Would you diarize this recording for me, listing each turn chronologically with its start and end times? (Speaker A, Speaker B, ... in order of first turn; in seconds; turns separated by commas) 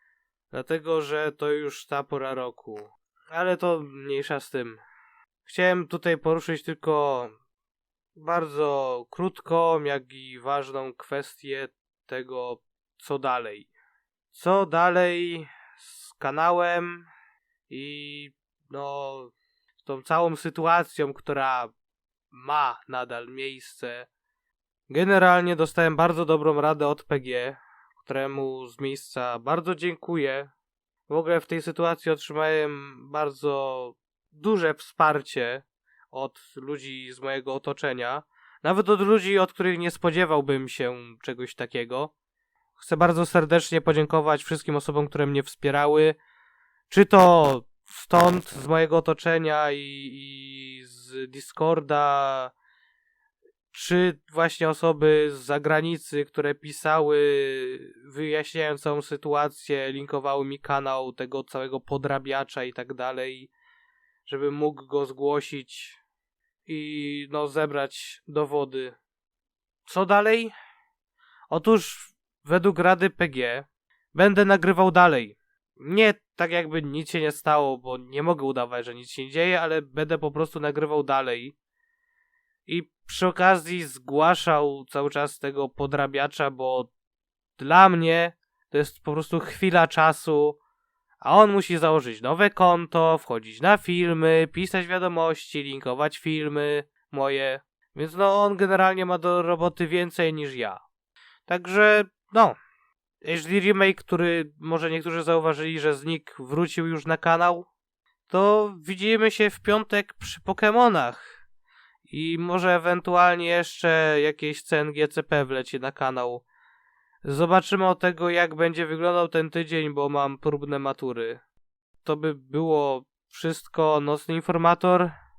Speaker A: 0.5-4.8, Speaker A: 5.4-7.3, Speaker A: 8.2-13.7, Speaker A: 14.3-17.1, Speaker A: 17.7-21.7, Speaker A: 22.3-24.1, Speaker A: 24.9-30.5, Speaker A: 31.1-42.1, Speaker A: 42.8-46.2, Speaker A: 46.9-52.5, Speaker A: 53.7-63.5, Speaker A: 64.2-66.0, Speaker A: 66.7-69.0, Speaker A: 69.8-70.5, Speaker A: 71.5-81.5, Speaker A: 82.7-86.9, Speaker A: 87.6-90.6, Speaker A: 91.2-100.8, Speaker A: 101.5-102.5, Speaker A: 103.2-107.7, Speaker A: 108.3-111.4, Speaker A: 112.1-116.4, Speaker A: 117.2-121.4, Speaker A: 122.0-125.1